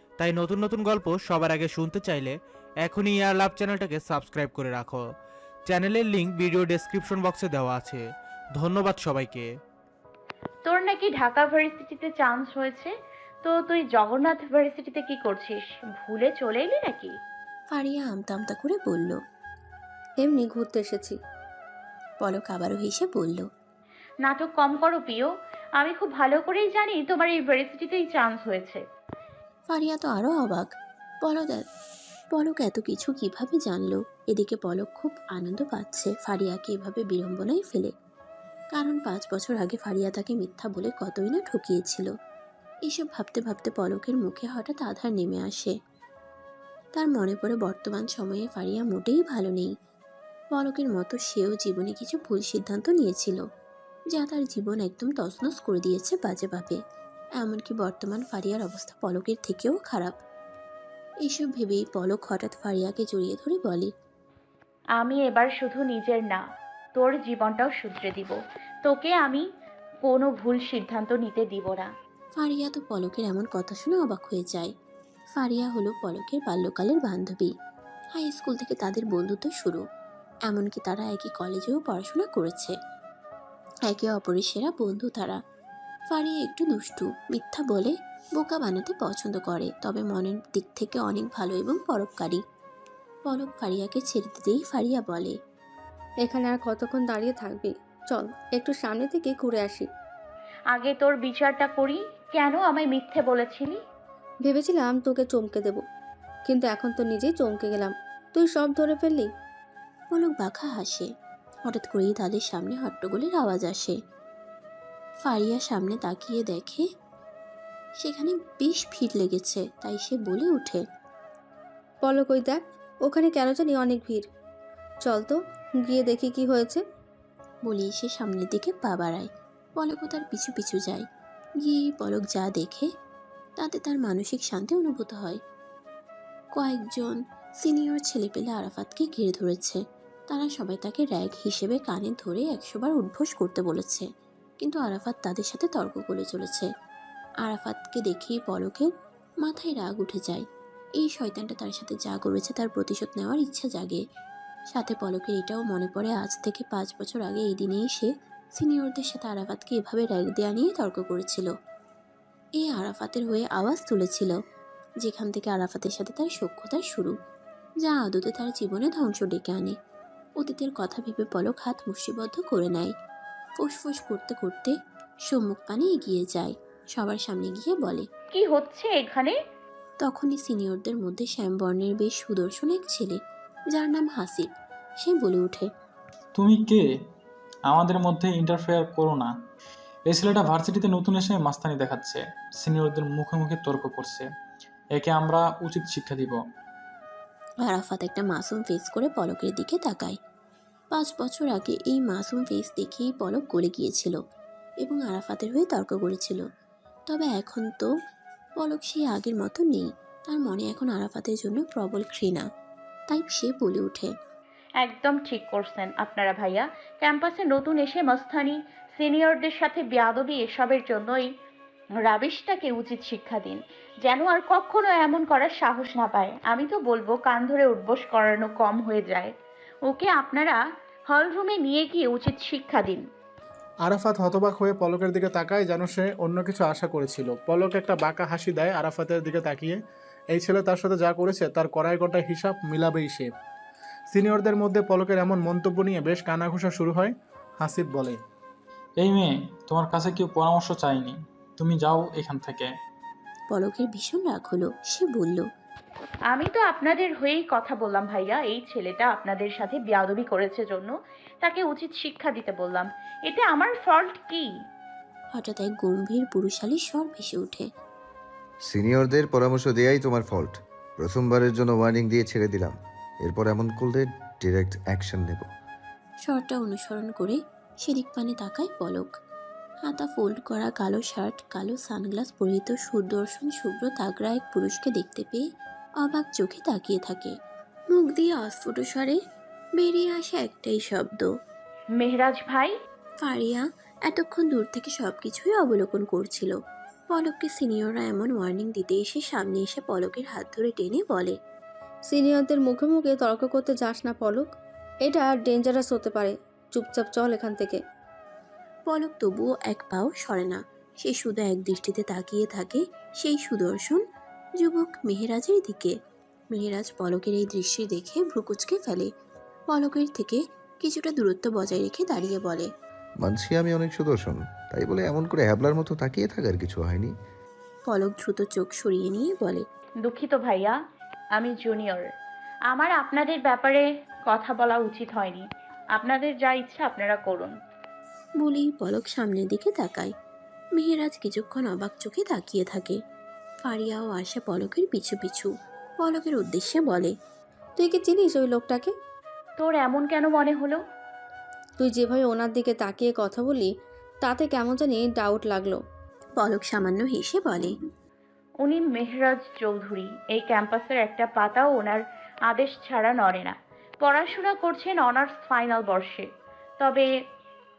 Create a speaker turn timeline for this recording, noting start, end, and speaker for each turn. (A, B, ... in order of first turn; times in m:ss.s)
0:00.2-0:05.0 A
0:05.7-0:08.0 A
0:08.6-0:09.5 A
0:10.6-0:17.2 B
0:17.7-0:19.2 C
0:20.2-0:21.2 D
0:22.2-0:23.5 C
0:24.2-0:28.8 B
0:29.7-0:31.7 C
0:32.3-0:37.9 C
0:38.7-0:42.1 C
0:42.9-0:45.8 C
0:47.0-0:49.7 C
0:50.5-0:53.4 C
0:54.1-0:56.8 C
0:57.4-1:00.2 C
1:01.2-1:03.9 C
1:05.0-1:06.4 B
1:07.0-1:09.5 B
1:10.0-1:11.9 B
1:12.4-1:14.7 C
1:15.4-1:17.5 C
1:18.2-1:19.8 C
1:20.5-1:22.8 C
1:23.8-1:25.4 C
1:26.1-1:32.4 C
1:33.3-1:35.4 C
1:36.2-1:39.9 D
1:40.7-1:43.8 B
1:44.5-1:45.8 D
1:46.5-1:49.3 D
1:50.1-1:51.1 C
1:51.7-1:54.0 C
1:55.2-1:56.8 C
1:58.0-2:00.8 C
2:02.0-2:04.3 D
2:05.0-2:06.8 D
2:07.7-2:11.1 C
2:11.6-2:12.9 C
2:13.6-2:15.4 C
2:16.6-2:24.1 C
2:24.6-2:26.7 C
2:27.4-2:28.9 C
2:29.4-2:30.5 C
2:31.0-2:34.0 C
2:34.7-2:41.5 C
2:42.6-2:44.4 C
2:45.0-2:47.2 C
2:47.8-2:49.8 C
2:50.4-2:53.0 C
2:53.6-2:54.8 C
2:55.3-2:58.1 C
2:58.3-2:59.4 B
3:00.0-3:03.2 C
3:03.7-3:04.5 C
3:05.0-3:05.7 C
3:06.4-3:06.9 E
3:07.7-3:09.3 E
3:10.1-3:14.3 E
3:15.0-3:16.4 E
3:17.6-3:20.2 C
3:20.9-3:24.2 C
3:24.8-3:26.4 C
3:27.1-3:27.9 C
3:28.6-3:32.5 C
3:33.1-3:34.1 C
3:34.8-3:41.3 B
3:42.0-3:49.3 B
3:49.9-3:53.1 B
3:53.8-3:59.8 F
4:00.3-4:03.3 F
4:04.1-4:08.2 F
4:09.0-4:12.7 E
4:13.5-4:15.5 C
4:16.3-4:24.5 B
4:25.3-4:27.7 C
4:28.7-4:35.5 G
4:36.2-4:39.2 C
4:39.8-4:45.4 C
4:46.0-4:47.4 C
4:47.9-4:49.2 C
4:49.8-4:51.3 C
4:52.0-4:52.8 B
4:53.2-4:56.6 C
4:57.1-5:01.4 C
5:02.1-5:04.5 D
5:05.0-5:07.8 D
5:08.9-5:14.0 C
5:14.6-5:16.0 C
5:16.5-5:19.1 C
5:19.7-5:22.7 C
5:23.2-5:27.1 G
5:27.9-5:29.6 C
5:30.0-5:30.8 B
5:31.4-5:32.1 B
5:32.7-5:37.5 B
5:38.4-5:40.1 C
5:40.8-5:43.0 C
5:43.6-5:47.2 C
5:47.8-5:48.9 D
5:49.6-5:50.8 B
5:51.8-5:53.7 D
5:54.2-5:55.8 D
5:56.4-5:57.8 C
5:58.6-6:06.3 B
6:06.8-6:07.1 B